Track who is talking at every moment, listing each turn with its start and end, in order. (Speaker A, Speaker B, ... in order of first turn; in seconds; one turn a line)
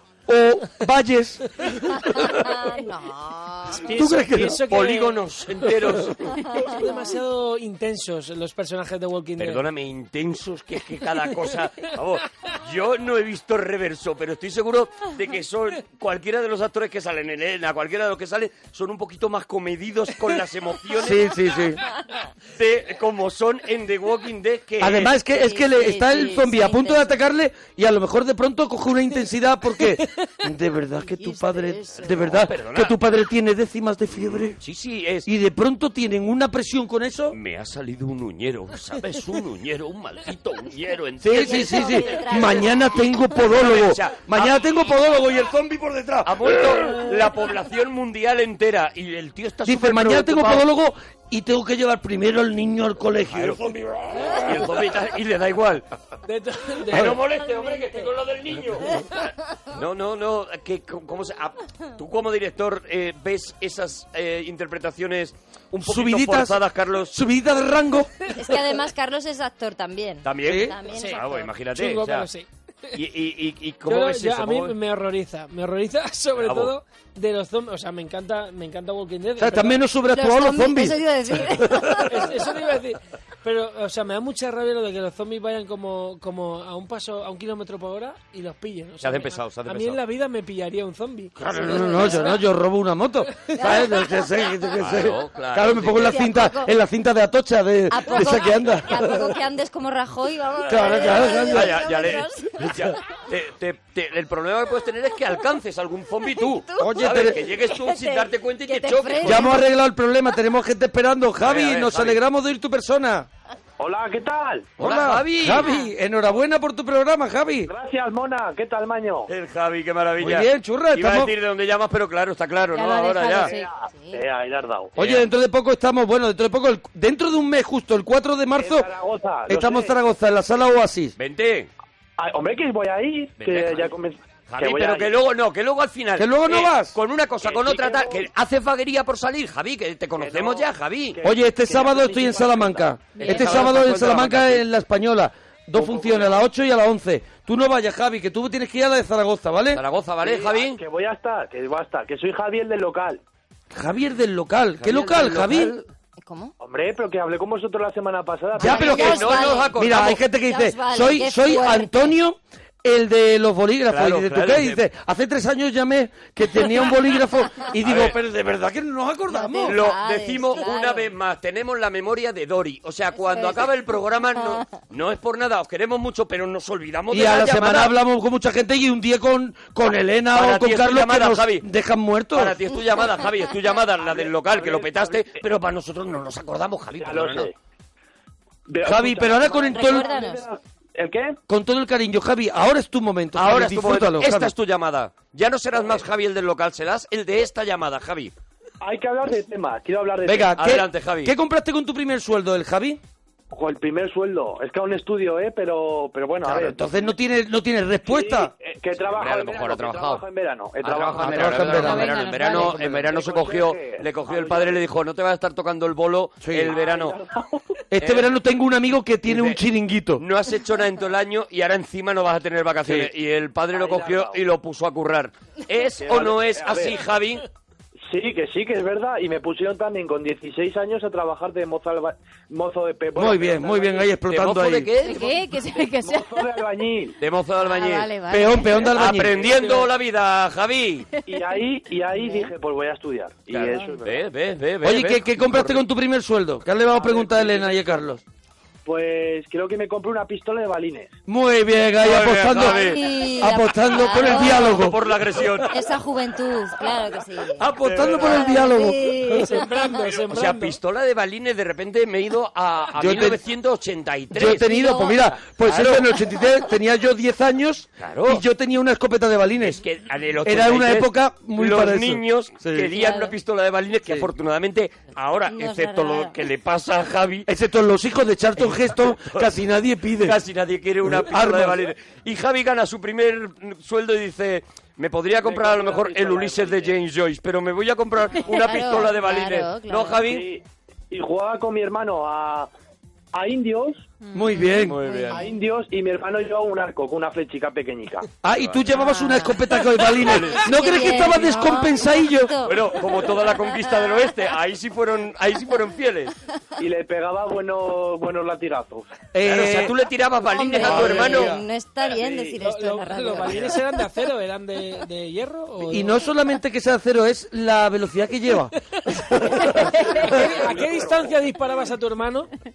Speaker A: 0.3-2.5
Speaker B: 2.1-3.9
Speaker C: 3.7-5.2
Speaker A: 3.9-4.6
Speaker D: 4.7-6.7
Speaker C: 6.5-9.6
Speaker D: 9.4-21.4
Speaker A: 21.0-21.8
Speaker D: 22.5-25.1
Speaker A: 24.8-34.6
Speaker B: 25.3-27.1
Speaker B: 31.0-32.4
Speaker D: 32.3-32.9
Speaker D: 34.1-35.3
Speaker A: 35.2-37.4
Speaker D: 37.3-42.2
Speaker A: 41.2-47.1
Speaker B: 41.3-43.0
Speaker D: 43.4-44.9
Speaker D: 46.2-50.7
Speaker A: 49.6-54.7
Speaker D: 53.3-53.7
Speaker D: 54.3-55.9
Speaker C: 56.2-57.2
Speaker D: 56.9-59.0
Speaker A: 56.9-57.2
Speaker D: 59.7-67.1
Speaker A: 65.8-66.6
Speaker A: 67.1-68.1
Speaker B: 68.3-71.5
Speaker D: 70.2-72.3
Speaker A: 70.4-70.8
Speaker C: 70.9-73.0
Speaker D: 72.9-74.8
Speaker C: 73.8-79.8
Speaker D: 76.4-76.7
Speaker A: 79.4-82.1
Speaker B: 80.1-82.2
Speaker C: 82.1-92.2
Speaker D: 89.0-90.0
Speaker A: 91.4-99.3
Speaker B: 91.6-92.2
Speaker B: 93.6-94.1
Speaker D: 94.8-96.2
Speaker B: 96.0-96.7
Speaker B: 97.9-102.8
Speaker A: 100.7-102.0
Speaker D: 101.0-109.5
Speaker B: 106.4-109.6
Speaker A: 106.8-107.4
Speaker A: 109.2-113.3
Speaker D: 111.4-112.2
Speaker E: 113.8-114.7
Speaker A: 114.8-117.7
Speaker D: 114.8-115.7
Speaker E: 117.7-119.3
Speaker D: 119.3-123.5
Speaker A: 120.2-121.3
Speaker F: 122.7-123.7
Speaker E: 123.4-124.9
Speaker B: 123.9-124.2
Speaker A: 125.0-128.9
Speaker D: 125.0-125.3
Speaker E: 128.6-129.9
Speaker A: 129.5-131.1
Speaker D: 131.2-131.7
Speaker E: 132.2-135.1
Speaker D: 133.4-133.9
Speaker D: 134.5-141.2
Speaker A: 136.2-136.9
Speaker E: 137.4-138.2
Speaker E: 140.2-142.8
Speaker A: 141.2-149.8
Speaker F: 143.1-143.6
Speaker D: 143.2-144.6
Speaker E: 145.7-146.4
Speaker D: 149.7-150.8
Speaker E: 150.2-153.2
Speaker A: 153.7-155.8
Speaker D: 154.8-155.8
Speaker B: 156.2-156.5
Speaker E: 156.6-159.2
Speaker B: 158.6-162.1
Speaker A: 158.6-169.8
Speaker D: 158.7-160.2
Speaker D: 163.9-164.8
Speaker D: 167.8-168.2
Speaker B: 169.3-171.1
Speaker D: 169.7-177.9
Speaker B: 173.1-173.7
Speaker A: 177.1-182.6
Speaker D: 180.3-181.7
Speaker D: 182.3-187.5
Speaker E: 184.0-185.4
Speaker E: 187.0-187.5
Speaker E: 188.7-191.4
Speaker A: 188.8-190.1
Speaker B: 189.7-190.4
Speaker A: 191.5-194.5
Speaker D: 193.3-198.3
Speaker E: 198.8-200.5
Speaker A: 200.2-203.0
Speaker D: 200.6-201.3
Speaker E: 203.5-206.8
Speaker A: 206.4-208.5
Speaker E: 208.1-211.9
Speaker D: 209.0-210.2
Speaker D: 210.8-217.2
Speaker A: 211.2-212.1
Speaker F: 211.8-212.8
Speaker E: 212.4-214.8
Speaker A: 216.4-216.7
Speaker E: 216.7-217.6
Speaker A: 217.9-220.2
Speaker D: 218.0-218.3
Speaker D: 219.2-219.6
Speaker D: 220.2-227.4
Speaker A: 222.8-223.1
Speaker E: 223.7-224.4
Speaker E: 226.0-227.0
Speaker E: 228.1-234.1
Speaker A: 233.1-234.9
Speaker D: 234.3-235.4
Speaker F: 235.0-236.4
Speaker E: 236.0-237.2
Speaker D: 237.2-238.1
Speaker F: 237.7-238.9
Speaker A: 238.3-239.4
Speaker D: 238.8-241.1
Speaker E: 239.4-239.7
Speaker E: 241.3-244.2
Speaker B: 242.2-242.5
Speaker D: 243.5-245.8
Speaker A: 244.8-248.2
Speaker E: 246.9-247.7
Speaker E: 248.8-251.1
Speaker A: 251.3-255.2
Speaker D: 252.0-253.0
Speaker B: 252.5-254.9
Speaker D: 254.2-255.7
Speaker B: 255.6-259.7
Speaker A: 257.6-259.5
Speaker D: 257.7-258.6
Speaker C: 259.3-260.8
Speaker D: 260.1-264.7
Speaker A: 262.9-263.4
Speaker A: 264.3-269.8
Speaker B: 264.6-265.4
Speaker D: 265.6-266.1
Speaker D: 268.0-268.4
Speaker D: 269.6-277.5
Speaker A: 270.4-272.9
Speaker B: 272.9-273.3
Speaker B: 275.5-276.4
Speaker A: 277.5-280.4
Speaker D: 278.6-279.5
Speaker D: 280.2-290.4
Speaker A: 281.0-281.9
Speaker E: 285.3-287.0
Speaker B: 288.4-290.2
Speaker E: 290.2-292.7
Speaker E: 293.3-294.1
Speaker F: 294.2-294.9
Speaker A: 294.3-295.0
Speaker D: 294.7-295.4
Speaker B: 295.0-295.5
Speaker E: 295.3-298.3
Speaker A: 298.4-302.6
Speaker D: 298.6-298.8
Speaker B: 298.9-303.5
Speaker D: 300.1-300.6
Speaker D: 302.6-306.3
Speaker E: 306.8-309.1
Speaker A: 309.3-310.0
Speaker D: 309.4-311.6
Speaker B: 310.4-313.7
Speaker A: 310.8-311.6
Speaker E: 312.2-312.5
Speaker C: 312.6-316.2
Speaker A: 315.8-320.4
Speaker E: 319.4-321.4
Speaker F: 319.8-320.2
Speaker C: 320.2-322.5